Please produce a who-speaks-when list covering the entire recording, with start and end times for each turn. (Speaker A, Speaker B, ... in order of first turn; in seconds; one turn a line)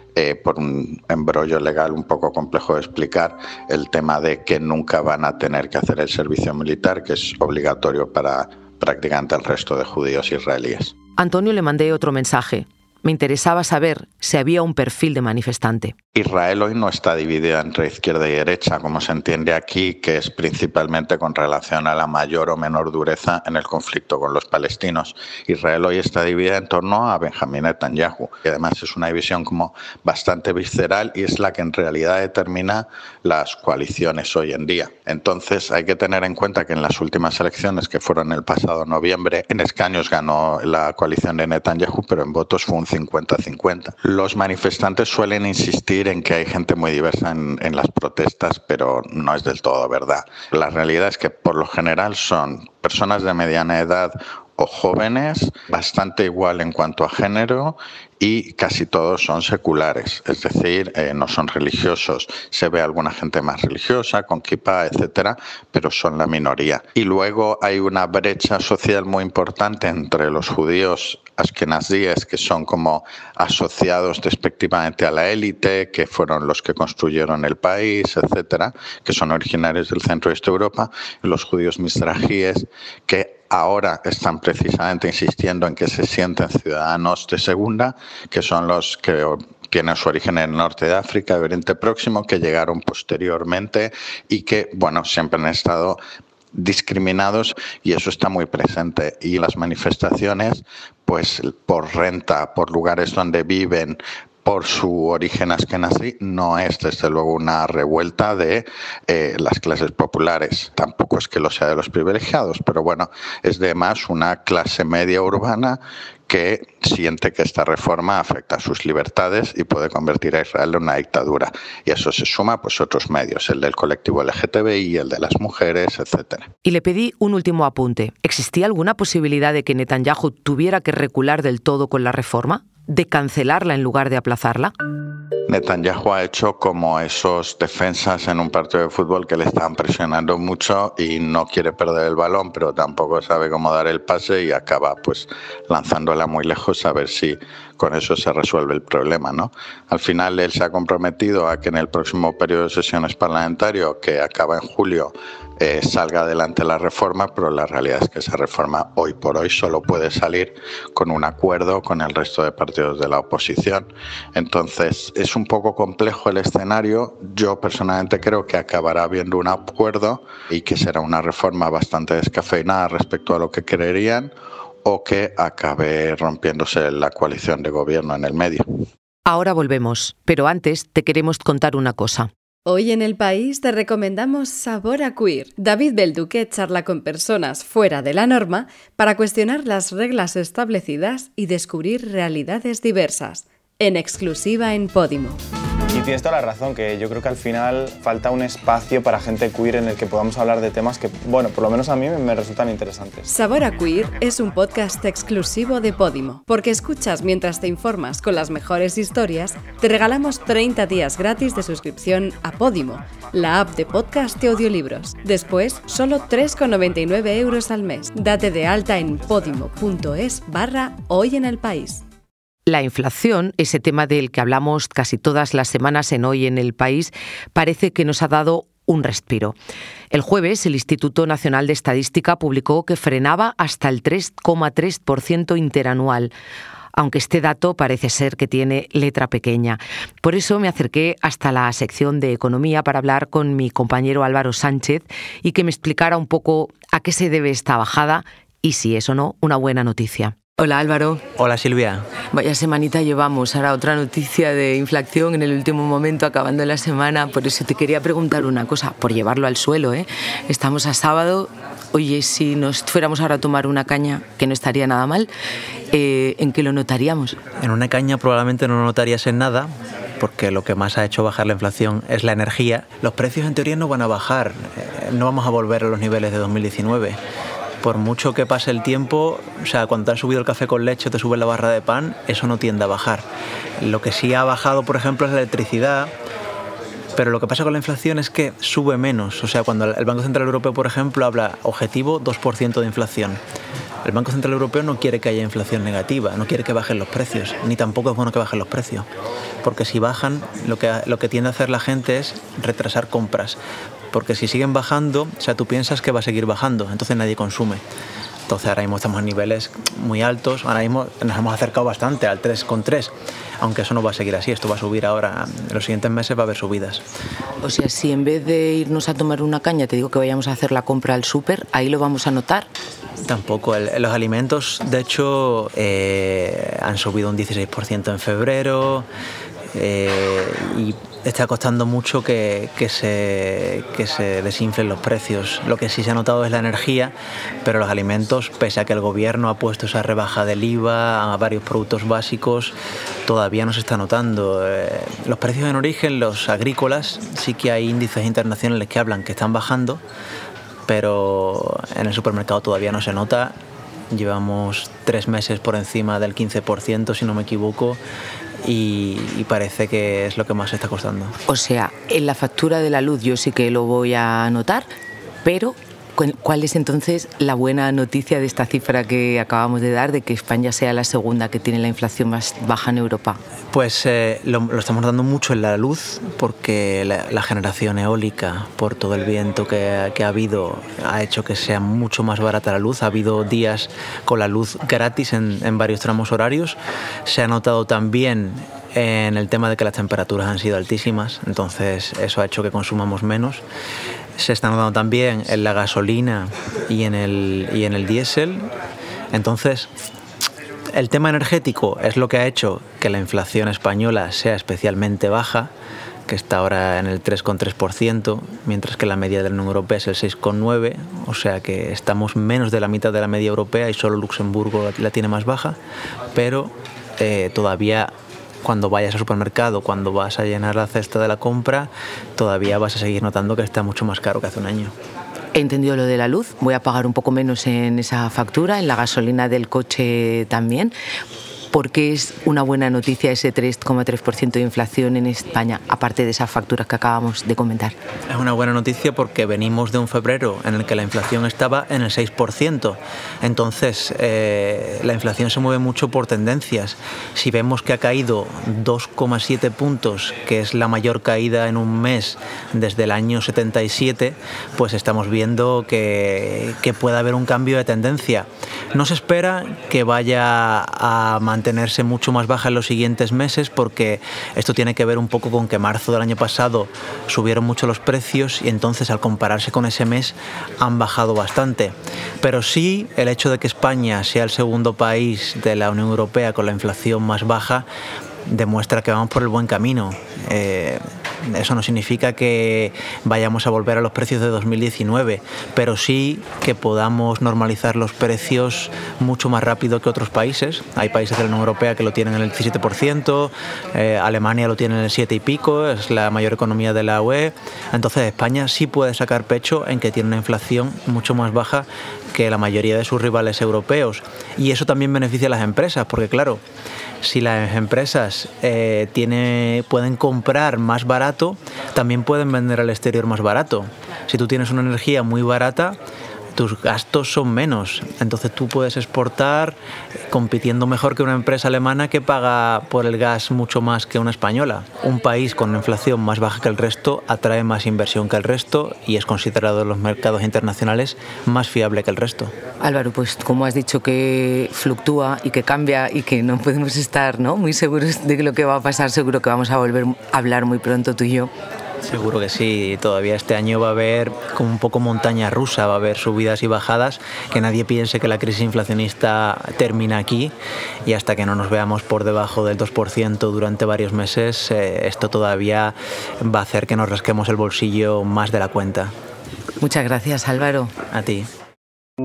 Speaker A: 0.2-10.9
Speaker B: 11.2-15.9
Speaker A: 16.2-96.0
Speaker A: 96.5-126.5
Speaker B: 126.6-134.7
Speaker A: 135.5-174.3
Speaker A: 174.8-178.6
Speaker B: 179.3-182.3
Speaker C: 182.7-195.4
Speaker D: 195.9-203.2
Speaker C: 203.3-222.0
Speaker B: 222.7-229.6
Speaker B: 230.1-236.3
Speaker B: 236.9-251.2
Speaker E: 251.4-252.0
Speaker B: 252.3-265.3
Speaker B: 265.9-267.4
Speaker E: 267.6-277.2
Speaker E: 277.8-283.2
Speaker E: 283.8-286.1
Speaker E: 287.2-293.4
Speaker E: 294.1-299.1
Speaker E: 299.6-303.6
Speaker E: 304.1-307.8
Speaker E: 308.5-317.0
Speaker B: 317.6-322.7
Speaker E: 323.2-329.1
Speaker E: 329.8-337.1
Speaker E: 337.6-342.7
Speaker E: 343.3-350.0
Speaker E: 350.9-353.5
Speaker E: 354.1-358.0
Speaker E: 358.6-361.3
Speaker B: 361.5-364.9
Speaker B: 365.4-373.4
Speaker E: 373.7-393.6
Speaker E: 394.4-398.6
Speaker E: 399.3-399.9
Speaker E: 401.0-405.7
Speaker E: 406.3-415.8
Speaker E: 416.4-418.1
Speaker E: 418.6-424.9
Speaker B: 425.6-430.9
Speaker B: 431.7-437.9
Speaker E: 438.3-477.9
Speaker E: 478.5-506.6
Speaker E: 507.2-516.0
Speaker E: 516.6-519.8
Speaker E: 520.3-532.5
Speaker B: 532.8-541.5
Speaker E: 542.1-550.5
Speaker E: 551.1-559.1
Speaker B: 559.8-560.9
Speaker E: 561.1-561.5